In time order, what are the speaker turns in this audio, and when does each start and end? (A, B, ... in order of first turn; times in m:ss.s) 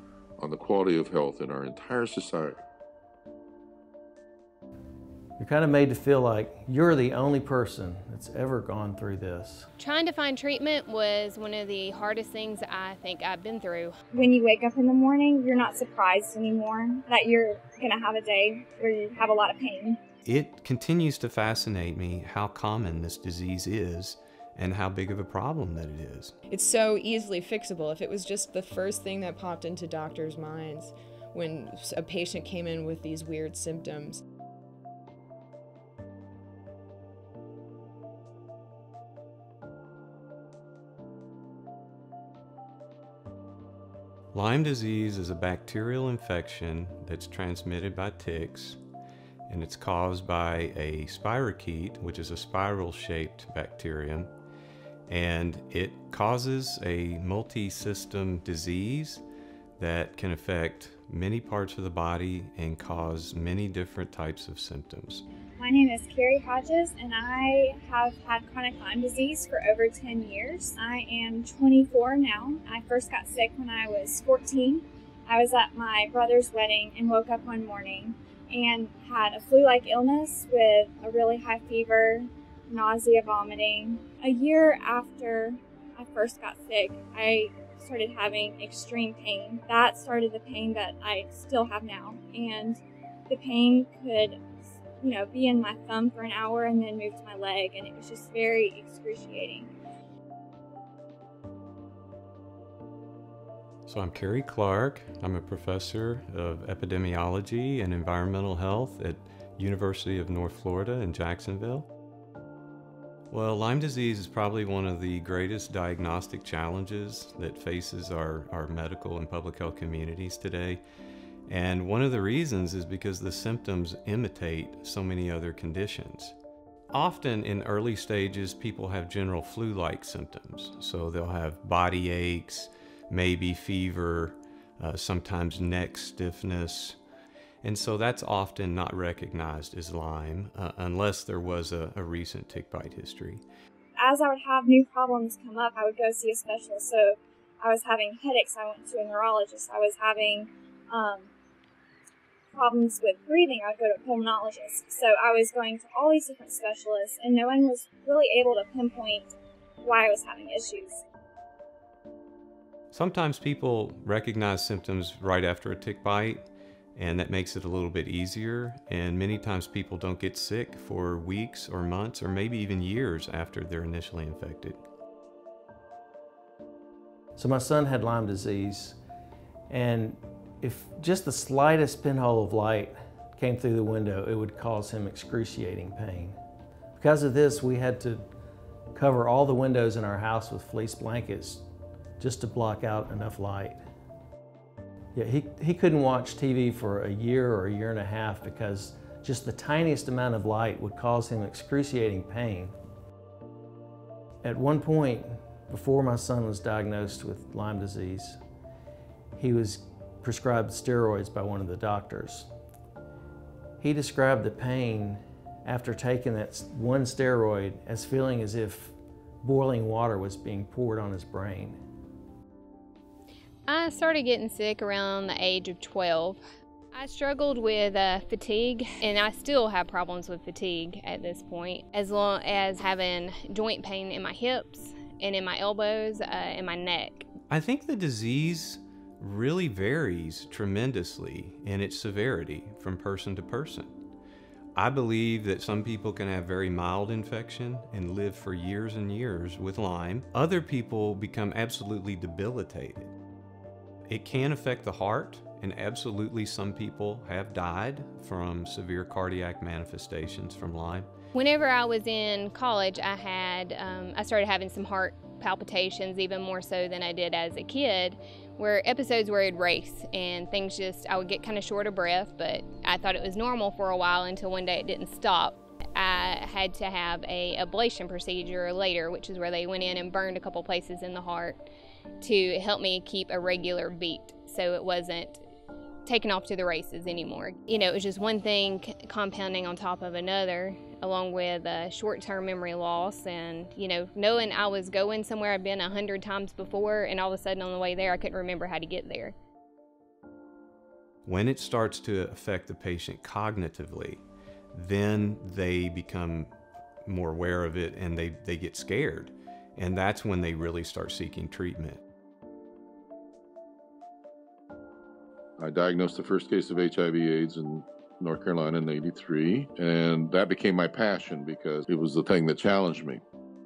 0:00.4-0:02.6 A
0:05.4-0:09.7 B
0:09.8-0:14.0 C
0:14.1-0:20.0 D
0:20.2-0:26.3 E
0:26.5-0:34.2 F
0:44.3-0:48.8 E
0:49.5-0:54.3 E
0:55.1-0:59.2 E
0:59.8-1:05.2 E
1:05.6-1:34.4 D
1:35.0-1:39.7 D
1:43.8-1:51.9 E
1:53.3-2:00.8 E
2:01.5-2:06.4 E
2:06.9-2:17.0 E
2:17.6-2:23.4 E
2:24.0-2:31.3 D
2:32.5-2:39.3 D
2:39.8-2:41.0 D
2:42.9-2:54.8 E
2:57.4-2:59.0 B
2:59.7-3:06.4 B
3:06.9-3:08.2 B
3:08.9-3:11.6 B
3:12.2-3:13.8 B
3:15.1-3:22.7 B
3:24.4-3:28.4 B
3:29.4-3:32.5 B
3:33.8-3:41.8 B
3:43.7-3:46.4 C
3:46.9-3:57.3 C
3:57.5-4:04.0 E
4:04.7-4:13.1 E
4:14.1-4:21.1 E
4:21.3-4:41.6 C
4:42.2-4:45.4 C
4:46.0-4:59.3 C
5:01.2-5:06.5 E
5:07.0-5:12.0 E
5:15.6-5:23.2 A